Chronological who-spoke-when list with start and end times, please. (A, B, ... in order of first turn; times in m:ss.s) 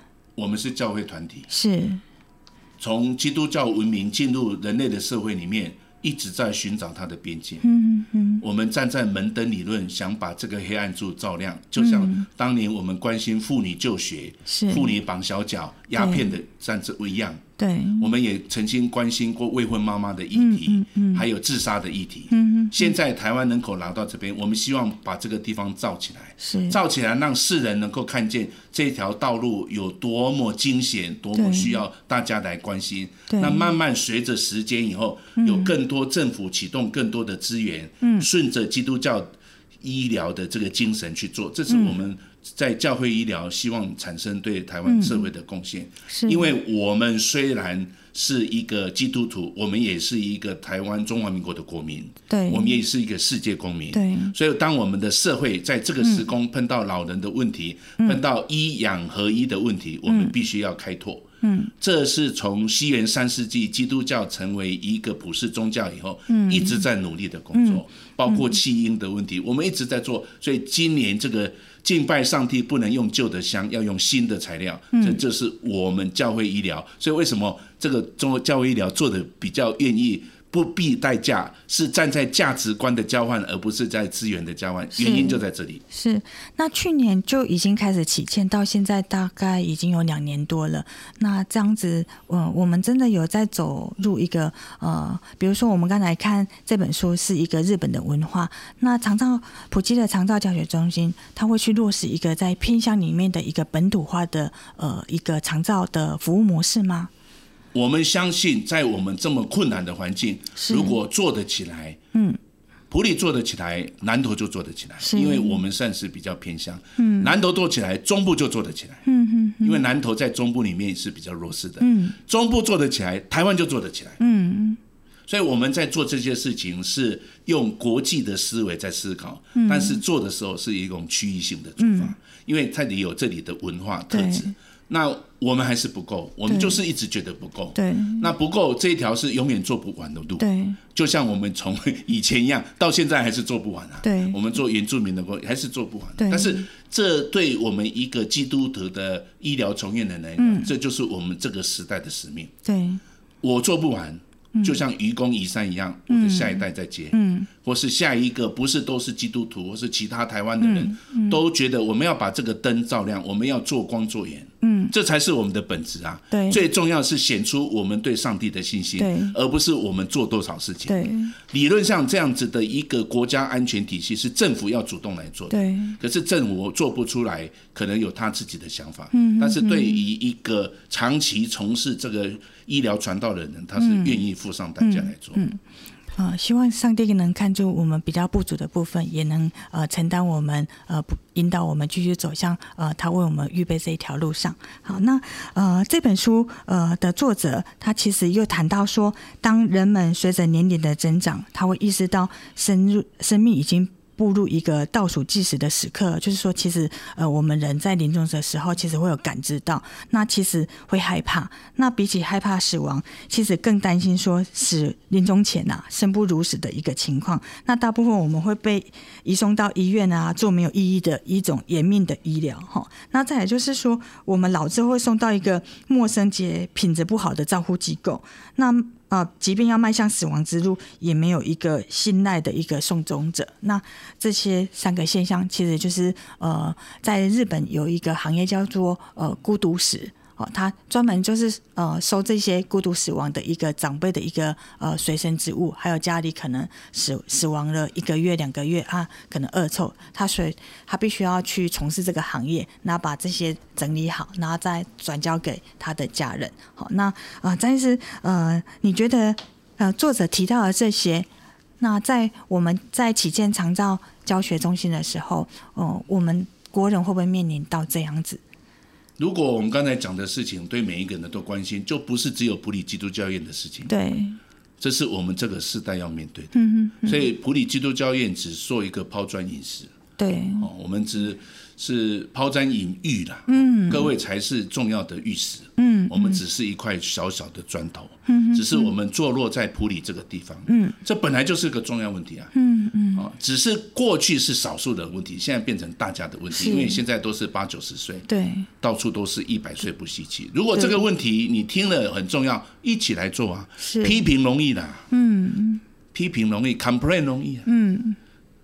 0:00.4-0:01.5 A
0:01.5-0:02.0 B
0:02.8-0:07.7 A
0:07.6-0:08.4 B
0:08.4-0:17.4 A
0:11.8-0:12.3 B
0:14.5-0:14.9 B
0:15.9-0:16.3 B
0:17.6-0:18.1 B
0:18.0-1:25.8 A
0:20.3-0:21.2 B
0:22.3-0:22.9 B
0:26.4-0:26.8 B
0:31.3-0:31.8 B
0:33.3-0:33.7 B
0:35.4-0:35.7 B
0:38.0-0:38.3 B
0:41.7-0:42.0 B
0:44.8-0:45.3 B
0:46.1-0:46.5 B
0:52.3-0:52.8 B
0:53.9-0:54.4 B
1:00.1-1:00.3 B
1:01.4-1:01.7 B
1:06.3-1:06.8 B
1:07.5-1:08.5 B
1:14.9-1:15.2 B
1:24.9-1:25.4 B
1:25.9-1:47.1 B
1:47.7-1:52.0 A
1:50.6-1:51.0 B
1:52.9-1:59.0 A
1:55.0-1:55.6 B
1:57.0-1:57.3 B
1:59.1-1:59.8 B
1:59.6-2:04.2 A
2:01.8-2:02.2 B
2:04.2-2:04.8 B
2:05.3-2:32.5 A
2:09.6-2:10.0 B
2:11.8-2:12.1 B
2:14.1-2:14.5 B
2:16.5-2:16.8 B
2:17.8-2:18.3 B
2:20.4-2:20.8 B
2:24.0-2:24.4 B
2:26.2-2:26.7 B
2:30.4-2:30.7 B
2:32.6-2:33.0 B
2:33.4-3:05.4 A
2:36.1-2:37.5 B
2:40.6-2:41.4 B
2:44.6-2:44.9 B
2:46.3-2:46.6 B
2:49.0-2:49.4 B
2:50.9-2:51.4 B
2:55.5-2:56.0 B
2:59.1-3:00.0 B
3:03.8-3:04.2 B
3:04.8-3:05.6 B
3:06.2-4:21.3 B
4:21.8-4:28.4 B
4:29.2-4:33.9 A
4:33.9-4:34.4 B
4:34.8-4:39.9 A
4:36.5-4:37.3 B
4:40.2-4:40.7 B
4:40.6-4:52.5 A
4:43.5-4:44.1 B
4:45.8-4:46.4 B
4:48.3-4:48.9 B
4:50.7-4:51.0 B
4:52.6-4:53.3 B
4:53.2-4:58.3 A
4:56.5-4:57.0 B
4:58.3-4:58.7 B
4:58.8-5:05.1 A
5:03.8-5:04.2 B
5:05.1-5:05.8 B
5:06.1-5:07.7 A
5:07.7-5:08.2 B